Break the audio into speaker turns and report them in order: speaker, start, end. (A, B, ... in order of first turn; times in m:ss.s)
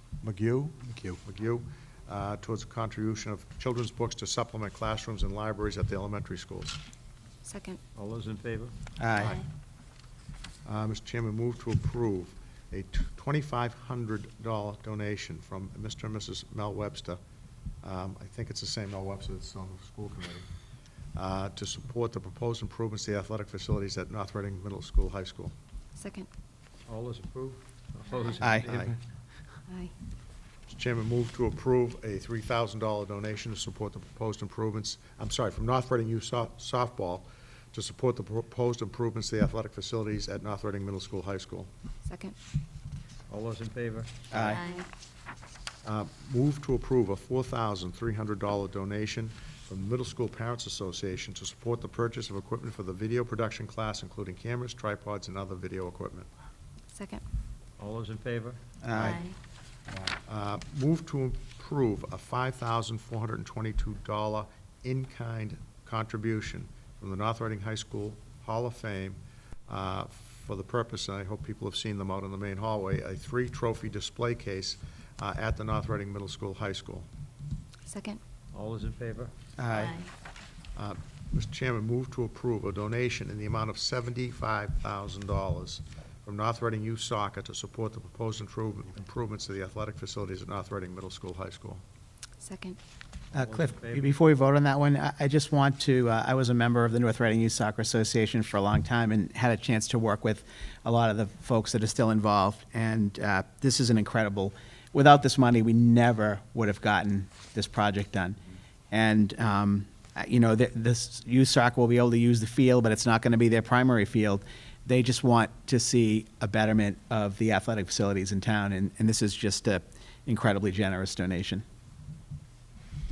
0:00.2-0:06.8 A
0:07.4-0:07.8 B
0:08.0-0:08.8 C
0:09.0-0:09.4 D
0:09.2-0:09.4 A
0:10.6-0:17.2 A
0:17.8-0:20.4 A
0:21.2-0:25.5 A
0:26.0-0:26.3 B
0:26.9-0:29.0 C
0:28.4-0:28.7 D
0:28.7-0:28.9 A
0:29.7-0:29.9 B
0:30.7-0:41.7 A
0:42.0-0:42.4 B
0:43.3-0:44.5 C
0:44.3-0:44.6 D
0:44.5-0:44.9 B
0:45.8-0:56.3 A
0:56.9-0:57.2 B
0:57.8-0:58.6 C
0:58.8-0:59.2 D
0:59.0-0:59.4 B
1:00.1-1:17.1 A
1:17.9-1:18.2 B
1:18.5-1:19.3 C
1:19.6-1:20.0 D
1:19.8-1:20.1 B
1:20.8-1:31.8 A
1:32.4-1:32.8 B
1:33.3-1:48.4 D
1:33.4-1:34.1 C
1:48.9-2:01.6 D